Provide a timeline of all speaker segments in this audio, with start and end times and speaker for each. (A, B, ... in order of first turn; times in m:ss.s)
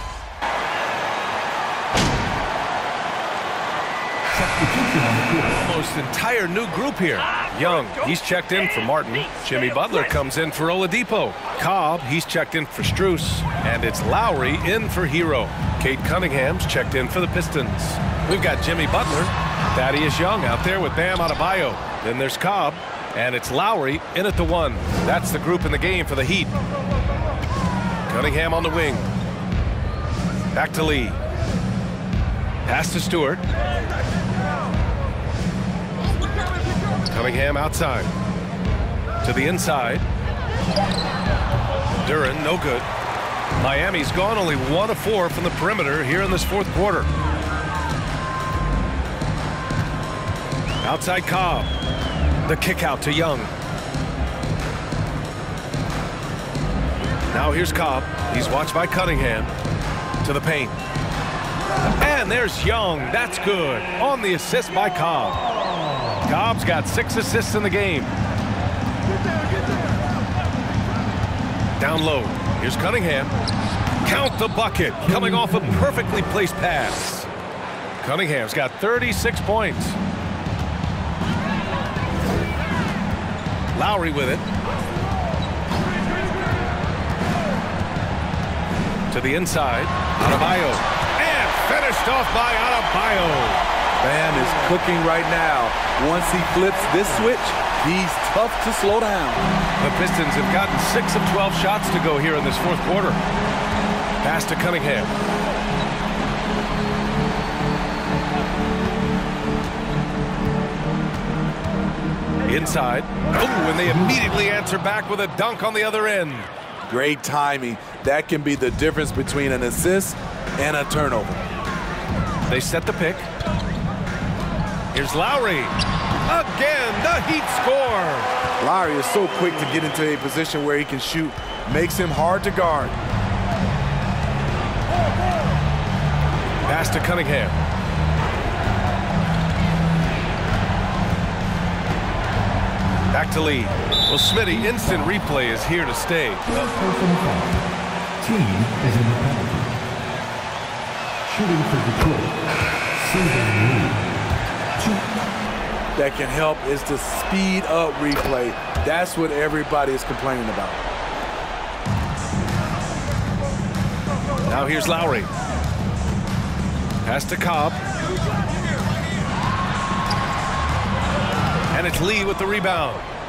0:04.3-0:05.6 A
0:05.5-0:26.5 B
0:28.1-0:29.1 B
0:30.5-0:31.2 B
0:32.6-0:33.4 B
0:37.1-0:38.1 B
0:39.2-0:40.0 B
0:42.0-0:42.9 B
0:43.6-0:47.1 B
0:50.8-0:51.7 B
0:52.4-0:53.5 B
0:57.3-0:59.5 B
1:00.2-1:00.8 B
1:02.0-1:05.4 B
1:06.2-1:08.1 B
1:11.8-1:13.3 B
1:14.0-1:17.3 B
1:15.0-1:16.0 A
1:18.0-1:20.0 B
1:23.7-1:24.4 B
1:29.1-1:33.6 B
1:34.0-1:39.4 C
1:39.8-1:43.2 B
1:44.2-1:45.1 B
1:52.4-1:56.5 B
1:56.8-2:01.4 C
2:02.5-2:03.2 B
2:04.9-2:05.7 B
2:06.2-2:08.3 B
2:08.6-2:12.9 C
2:16.6-2:17.6 B
2:23.1-2:26.4 B
2:26.5-2:27.6 A
2:28.2-2:29.7 A
2:31.2-2:32.4 A
2:32.9-2:34.0 A
2:34.8-2:35.0 A
2:36.0-2:40.8 C
2:44.5-2:45.3 B
2:47.0-2:47.8 B
2:51.7-2:53.1 B